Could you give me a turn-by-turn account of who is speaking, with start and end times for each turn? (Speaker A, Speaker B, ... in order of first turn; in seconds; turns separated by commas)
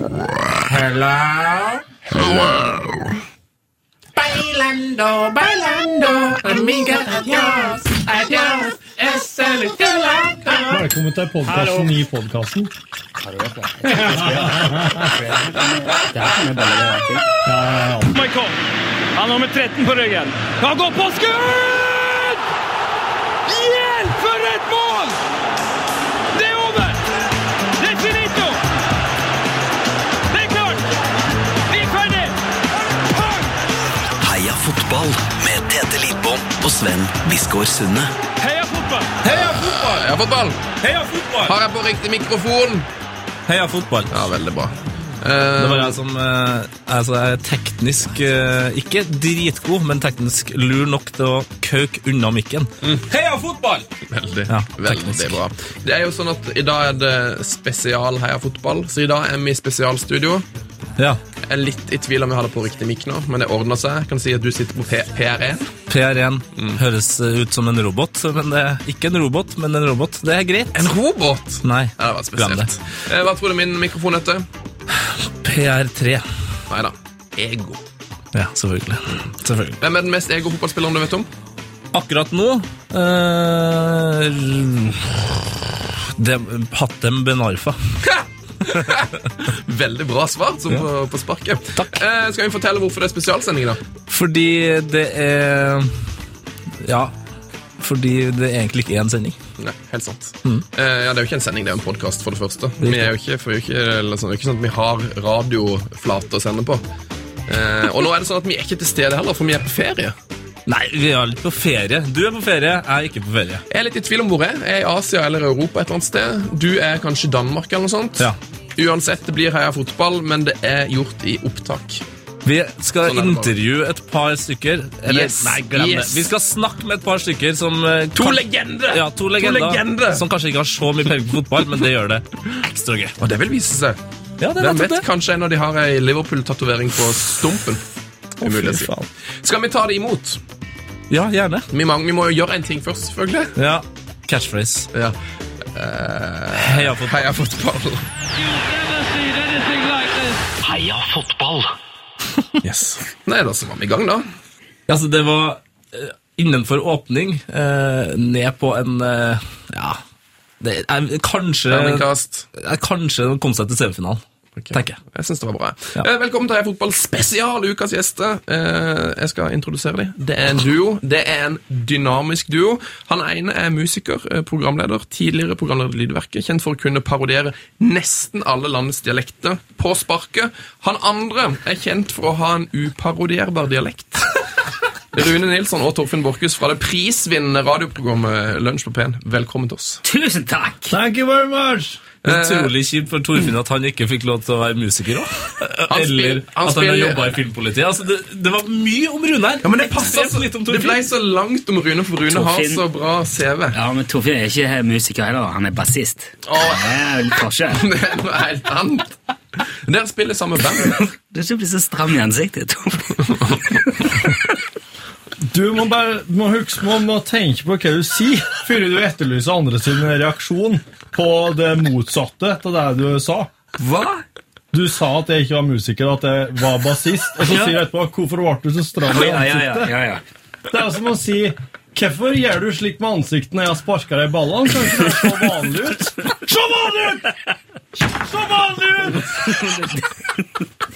Speaker A: 0.5-3.1, Speaker A: 4.2-10.8, Speaker B: 10.7-12.7, Speaker C: 11.5-11.9, Speaker D: 13.2-17.2, Speaker B: 13.8-15.1, Speaker B: 17.4-18.2, Speaker C: 18.1-18.5, Speaker C: 19.1-22.4, Speaker C: 23.5-25.2, Speaker C: 26.3-27.0, Speaker C: 27.8-28.6, Speaker C: 30.3-30.8, Speaker C: 31.7-32.3, Speaker C: 33.1-33.5, Speaker E: 34.2-38.1, Speaker C: 38.4-39.1, Speaker F: 39.2-40.1, Speaker G: 39.2-40.6, Speaker F: 40.8-41.6, Speaker G: 41.5-42.9, Speaker F: 43.5-44.2, Speaker G: 44.1-46.0, Speaker F: 45.6-53.9, Speaker G: 54.1-60.4, Speaker F: 54.5-55.4, Speaker G: 61.5-65.7, Speaker F: 65.9-70.9, Speaker G: 70.7-74.5, Speaker F: 71.6-72.7, Speaker F: 74.9-76.2, Speaker G: 76.7-77.8, Speaker F: 78.3-79.8, Speaker G: 79.8-81.3, Speaker F: 81.9-88.0, Speaker G: 88.0-93.8, Speaker F: 88.7-89.0, Speaker F: 94.1-95.9, Speaker F: 96.8-97.1, Speaker F: 97.8-99.3, Speaker G: 99.6-106.8, Speaker F: 102.8-103.1, Speaker G: 107.5-110.1, Speaker F: 110.7-113.6, Speaker G: 113.7-122.0, Speaker F: 122.4-133.2, Speaker G: 123.0-123.5, Speaker G: 125.1-126.2, Speaker G: 128.1-130.2, Speaker G: 133.2-134.0, Speaker F: 134.4-135.1, Speaker G: 134.6-137.8, Speaker G: 138.4-140.4, Speaker B: 138.4-139.1, Speaker F: 141.1-141.7, Speaker G: 141.7-143.5, Speaker F: 143.6-144.9, Speaker G: 145.7-148.0, Speaker F: 146.5-147.3, Speaker C: 148.6-150.3, Speaker E: 150.6-151.7, Speaker G: 152.6-154.3, Speaker F: 154.9-160.0, Speaker F: 160.6-164.2, Speaker G: 161.7-162.4, Speaker G: 164.6-184.3, Speaker F: 164.7-165.0, Speaker G: 185.1-190.0, Speaker D: 190.0-190.9, Speaker B: 190.9-192.0, Speaker F: 192.2-201.1, Speaker G: 192.2-192.7, Speaker G: 195.9-197.4, Speaker G: 199.6-203.8, Speaker D: 202.3-202.8, Speaker D: 203.7-207.8, Speaker G: 206.5-207.0, Speaker G: 207.7-209.2, Speaker G: 209.8-211.0, Speaker D: 211.1-213.3, Speaker B: 215.5-223.5, Speaker D: 223.8-224.2, Speaker B: 224.7-229.9, Speaker D: 229.1-230.2, Speaker B: 230.7-237.4, Speaker B: 238.0-239.9, Speaker D: 239.4-240.1